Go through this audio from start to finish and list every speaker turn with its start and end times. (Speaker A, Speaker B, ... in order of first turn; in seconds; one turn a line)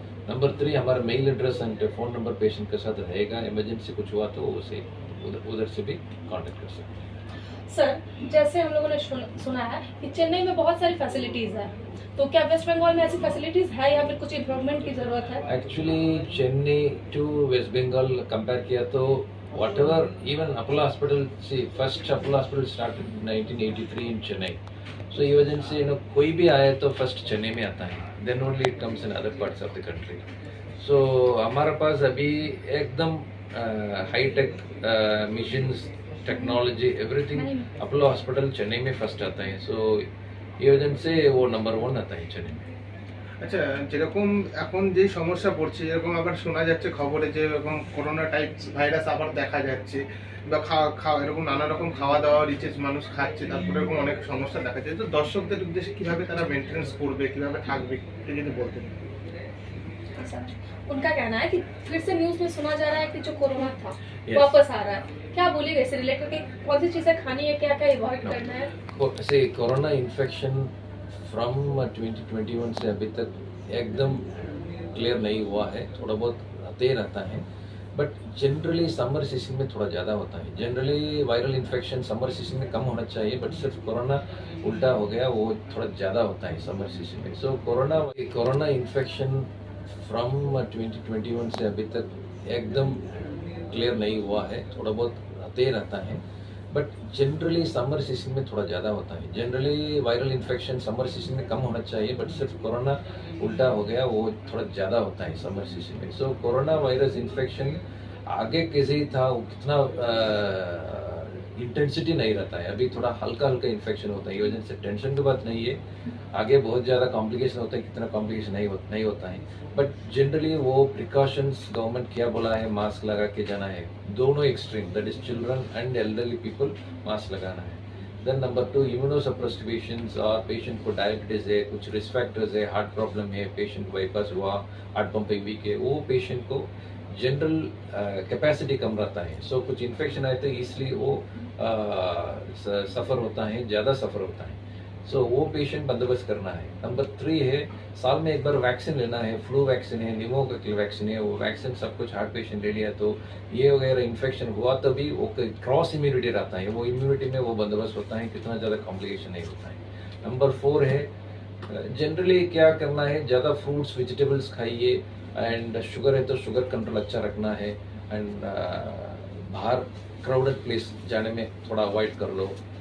Speaker A: 0.3-7.0
Speaker B: 7.7-15.4
Speaker A: 15.5-24.6
Speaker A: 25.1-30.2
Speaker A: 30.8-40.1
Speaker B: 37.4-37.7
Speaker A: 40.6-42.7
Speaker C: 43.4-58.9
Speaker B: 60.2-68.7
Speaker A: 64.3-64.5
Speaker A: 68.9-70.7
Speaker A: 71.3-74.3
Speaker A: 74.9-89.5
Speaker A: 90.1-93.0
Speaker A: 93.7-107.8
Speaker A: 108.3-115.8
Speaker A: 116.3-161.1
Speaker A: 161.7-172.6